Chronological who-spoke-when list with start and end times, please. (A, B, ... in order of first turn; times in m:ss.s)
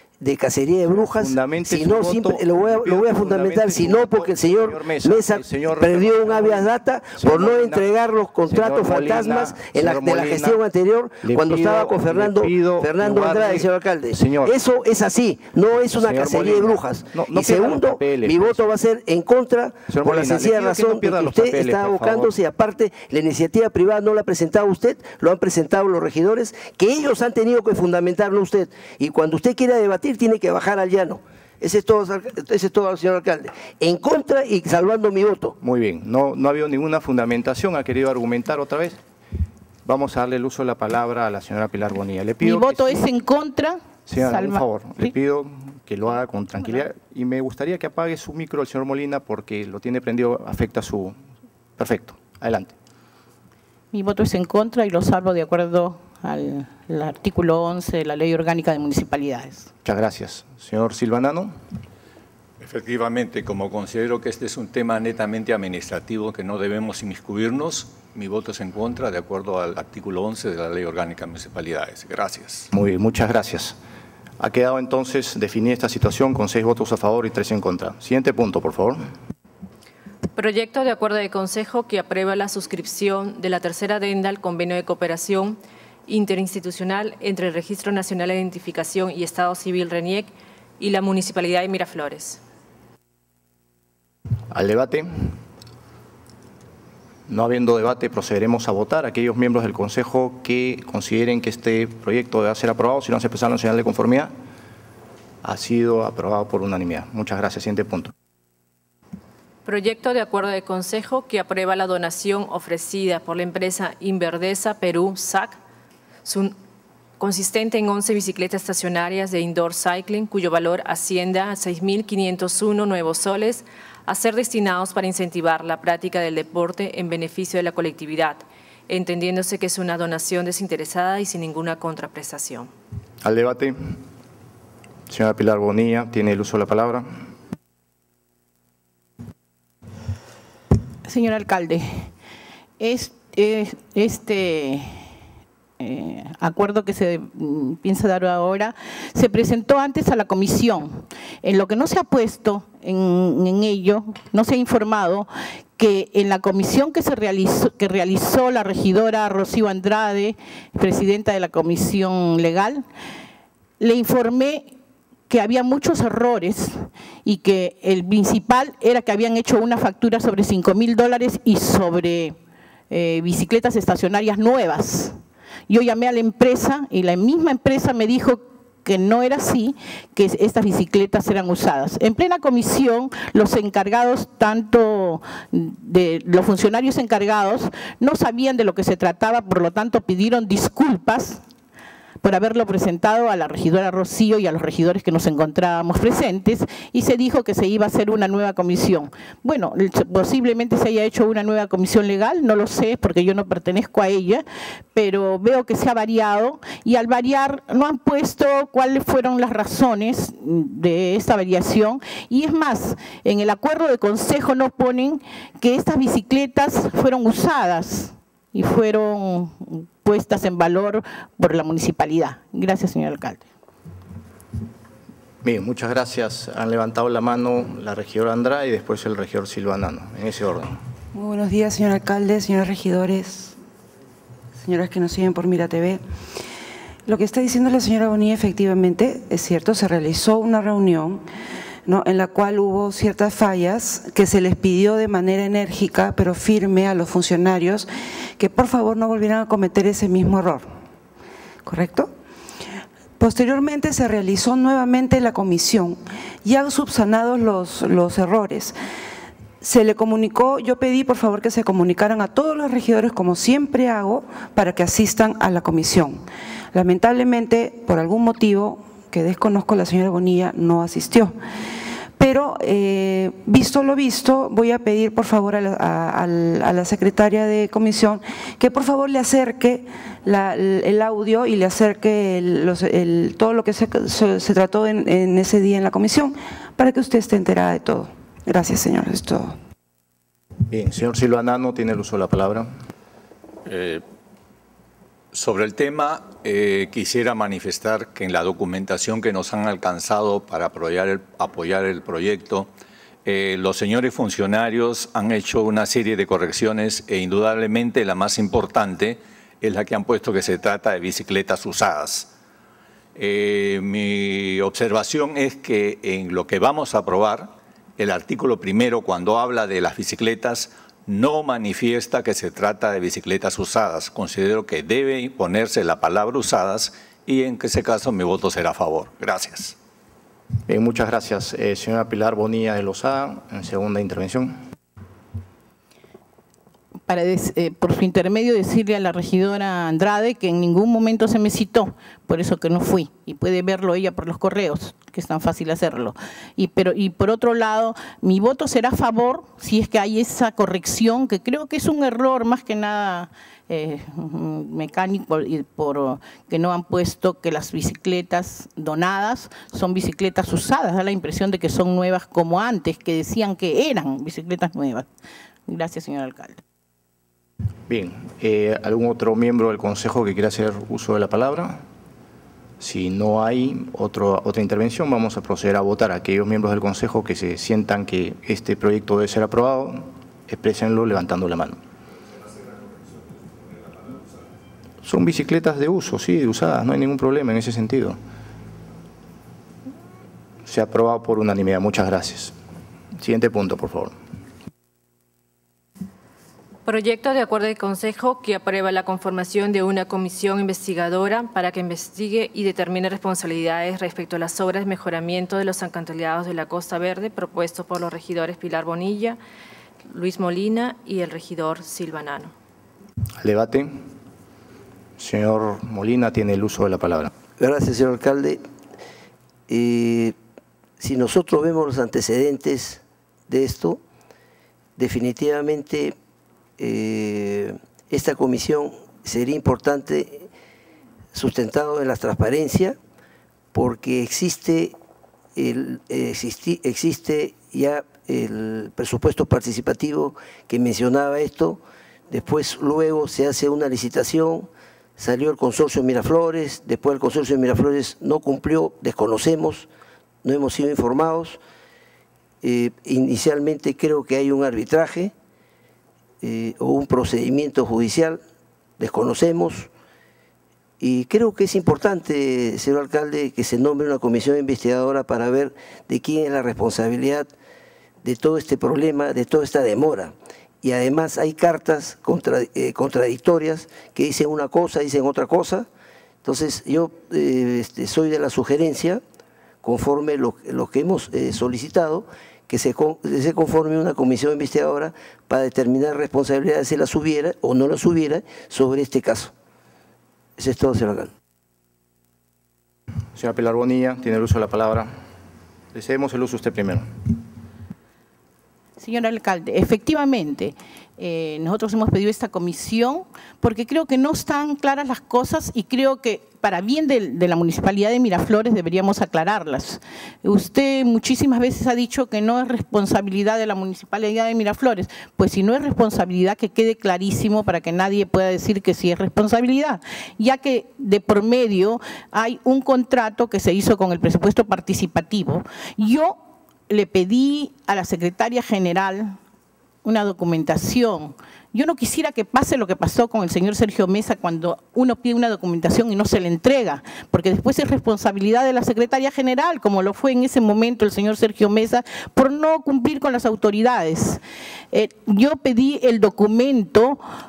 0:00.2-0:35.6 A
0:00.8-0:07.9 B
0:08.5-0:10.6 B
0:11.2-0:14.6 B
0:15.9-0:18.7 B
0:19.9-0:22.3 B
0:35.6-0:39.0 B
0:39.8-0:43.1 B
0:42.4-0:45.1 C
0:44.1-0:51.2 B
0:51.8-0:52.8 B
0:53.9-0:59.7 C
0:59.8-1:01.6 B
1:02.6-1:12.7 D
1:12.7-1:13.8 B
1:14.4-1:19.0 B
1:20.4-1:32.4 E
1:34.5-1:35.4 B
1:37.3-1:44.3 B
1:45.4-1:48.1 B
1:49.7-1:55.6 E
1:56.2-1:56.6 E
1:57.2-2:12.7 E
2:13.2-2:14.0 B
2:15.1-2:17.2 B
2:21.1-2:22.1 C
2:22.8-2:25.0 C
2:25.8-2:42.8 C
2:43.8-2:44.7 C
2:45.3-2:52.4 C
2:52.9-2:55.2 C
2:55.7-3:11.4 C
3:12.2-3:43.4 C
3:45.4-3:50.8 B
3:51.1-3:53.6 F
3:54.6-3:56.0 F
3:57.1-4:01.2 F
4:01.9-4:10.7 F
4:11.6-4:12.1 F
4:13.2-4:18.8 F
4:19.6-4:31.4 F
4:32.2-4:49.6 F
4:50.7-4:52.7 B
4:53.6-4:54.0 D
4:55.3-5:02.7 D
5:03.2-5:12.3 D
5:13.2-5:29.8 D
5:30.7-5:34.6 B
5:37.1-6:05.1 C
6:05.7-6:06.6 C
6:07.9-6:11.8 B
6:12.8-6:21.8 B
6:25.0-6:28.2 B
6:30.6-6:32.6 B
6:33.2-6:34.2 B
6:36.9-6:49.4 E
6:50.1-6:52.5 E
6:53.4-6:54.0 B
6:55.2-6:57.3 B
6:57.6-6:58.6 A
6:59.7-7:00.4 A
7:01.0-7:04.0 A
7:05.0-7:06.2 A
7:06.8-7:10.5 A
7:11.3-7:13.0 A
7:13.7-7:15.0 A
7:15.6-7:24.7 A
7:25.2-7:29.9 A
7:30.4-7:31.6 A
7:32.6-7:35.3 A
7:36.4-7:38.4 A
7:39.0-7:39.9 A
7:41.0-7:47.5 A
7:48.2-7:55.9 A
7:56.4-7:59.2 A
7:59.8-8:09.5 A
8:10.6-8:11.3 A
8:13.4-8:15.1 B
8:15.9-8:17.3 B
8:19.0-8:46.4 C
8:46.9-8:49.4 C
8:50.0-9:04.4 C
9:04.9-9:07.2 C